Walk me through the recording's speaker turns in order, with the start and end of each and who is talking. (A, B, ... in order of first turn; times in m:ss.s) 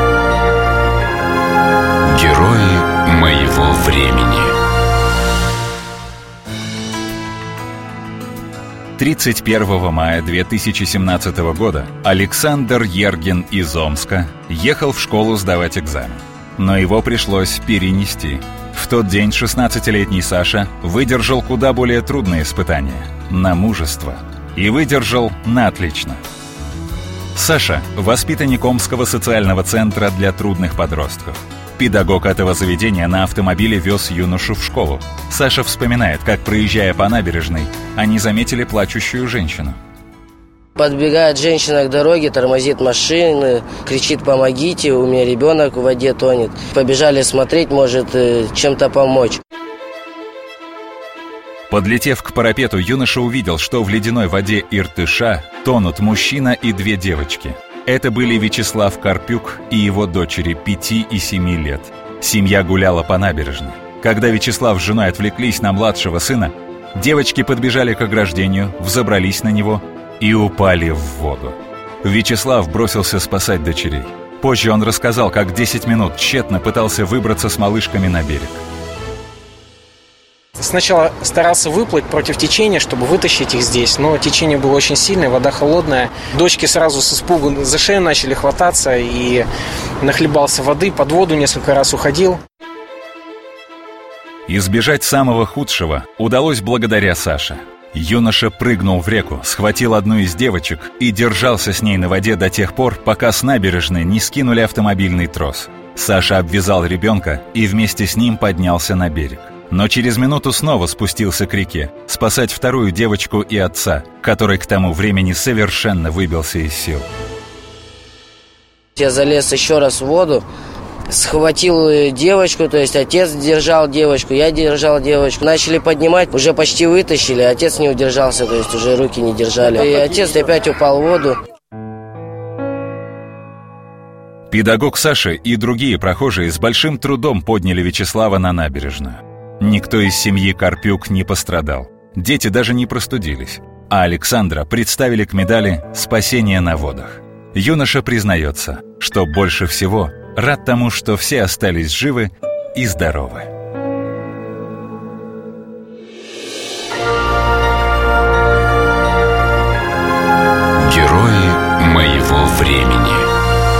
0:02.1-0:04.6 A
0:09.0-0:26.2 B
0:27.3-0:39.8 B
0:40.8-0:49.4 C
0:51.7-1:18.6 B
1:20.6-1:29.5 D
1:30.0-1:32.4 D
1:34.5-1:57.1 B
1:59.0-2:00.4 C
2:01.1-2:11.4 C
2:14.5-2:33.5 B
2:40.8-2:43.3 A